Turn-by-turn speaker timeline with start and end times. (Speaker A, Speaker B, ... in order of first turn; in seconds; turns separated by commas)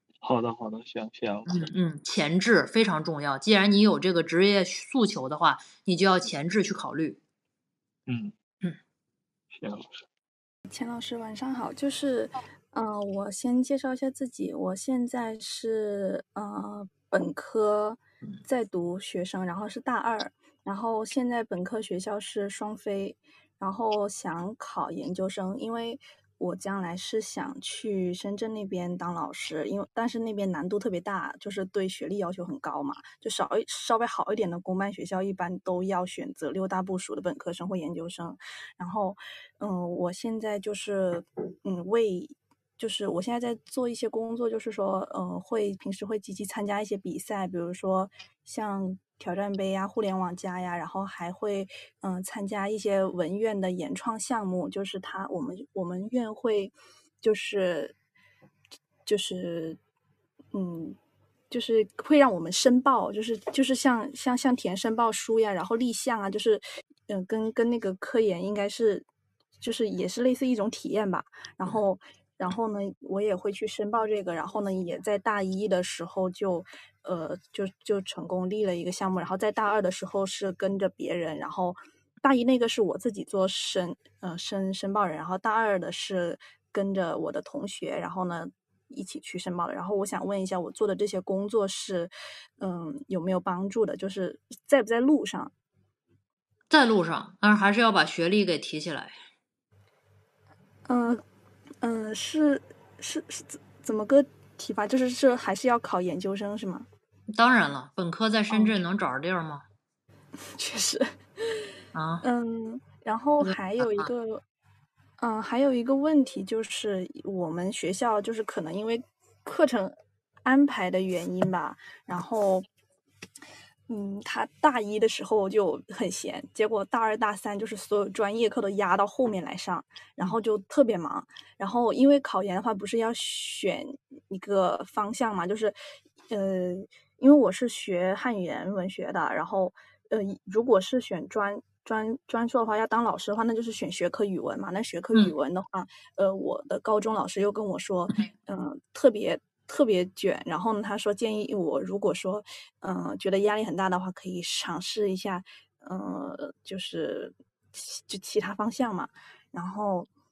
Speaker A: 0.2-1.7, Speaker B: 1.5-7.2, Speaker A: 8.1-8.3, Speaker A: 9.5-10.1, Speaker C: 10.7-57.9, Speaker C: 59.1-59.8, Speaker C: 60.5-61.0, Speaker C: 61.5-69.1, Speaker C: 69.6-95.5, Speaker B: 96.7-99.2, Speaker C: 100.9-101.2, Speaker C: 101.8-106.9, Speaker B: 107.3-109.6, Speaker C: 108.5-108.8, Speaker C: 110.6-111.5, Speaker B: 111.9-112.2, Speaker C: 112.2-114.4, Speaker B: 113.4-114.1, Speaker C: 115.2-122.7, Speaker C: 123.9-135.8, Speaker C: 136.3-160.1